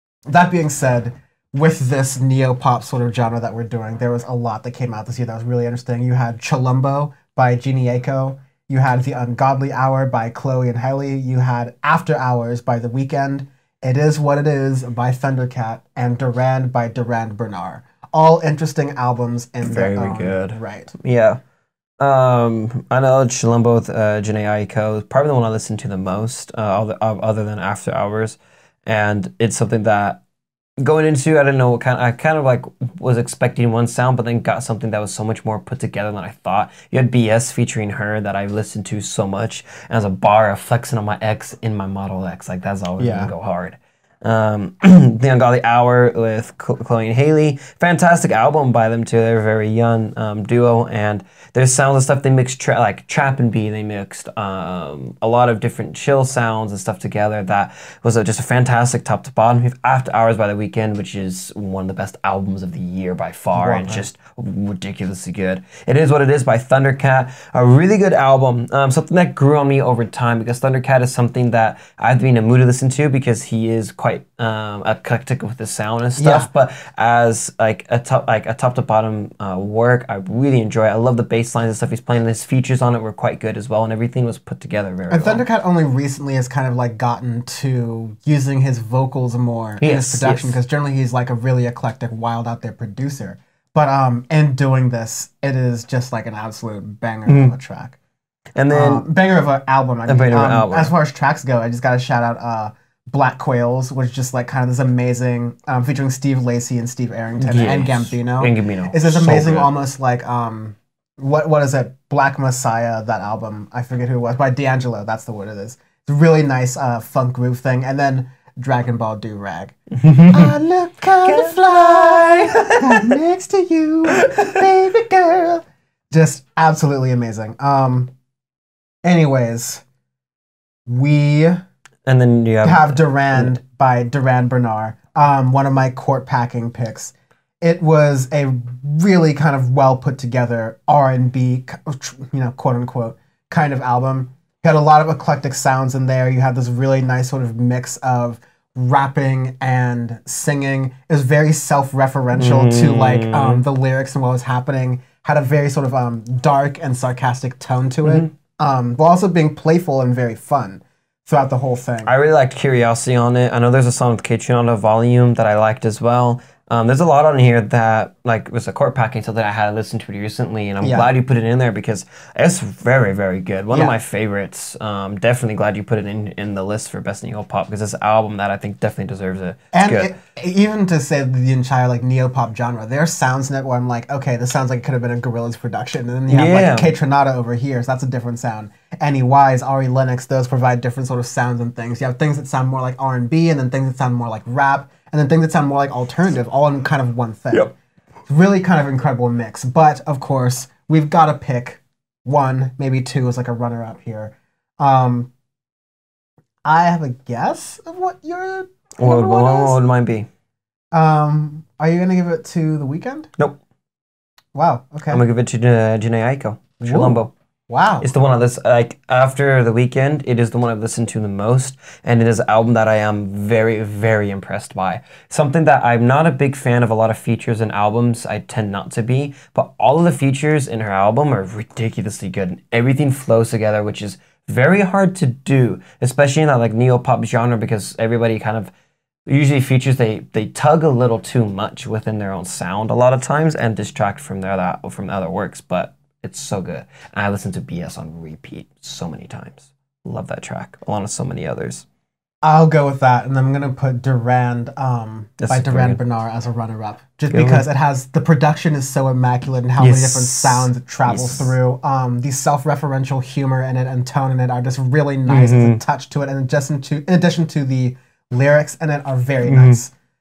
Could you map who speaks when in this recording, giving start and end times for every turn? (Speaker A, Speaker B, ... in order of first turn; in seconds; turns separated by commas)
Speaker A: 0.3-20.9, Speaker B: 19.6-21.4, Speaker B: 22.0-30.2, Speaker B: 30.8-85.4, Speaker A: 43.0-43.3, Speaker A: 63.5-64.1, Speaker A: 76.2-76.5, Speaker A: 85.1-98.0, Speaker B: 89.8-90.6, Speaker B: 97.2-97.5, Speaker B: 98.5-99.0, Speaker A: 98.7-119.8, Speaker B: 100.1-100.9, Speaker B: 107.4-109.7, Speaker B: 120.0-120.5, Speaker A: 120.3-128.1, Speaker B: 121.2-123.1, Speaker A: 129.0-129.8, Speaker A: 130.9-131.6, Speaker B: 132.1-133.6, Speaker A: 132.6-162.1, Speaker B: 152.3-153.6, Speaker B: 158.0-158.3, Speaker B: 162.0-180.1, Speaker A: 170.8-171.1, Speaker A: 179.7-197.7, Speaker B: 186.3-186.9, Speaker A: 198.3-205.3, Speaker A: 206.6-209.8, Speaker B: 209.0-210.3, Speaker A: 210.9-213.3, Speaker A: 214.5-215.2, Speaker B: 215.1-217.3, Speaker A: 216.8-218.1, Speaker B: 218.0-238.7, Speaker B: 239.2-251.8, Speaker A: 252.4-269.9, Speaker B: 255.4-256.0, Speaker B: 257.3-257.6, Speaker B: 259.8-261.5, Speaker B: 265.3-265.8, Speaker B: 269.4-269.8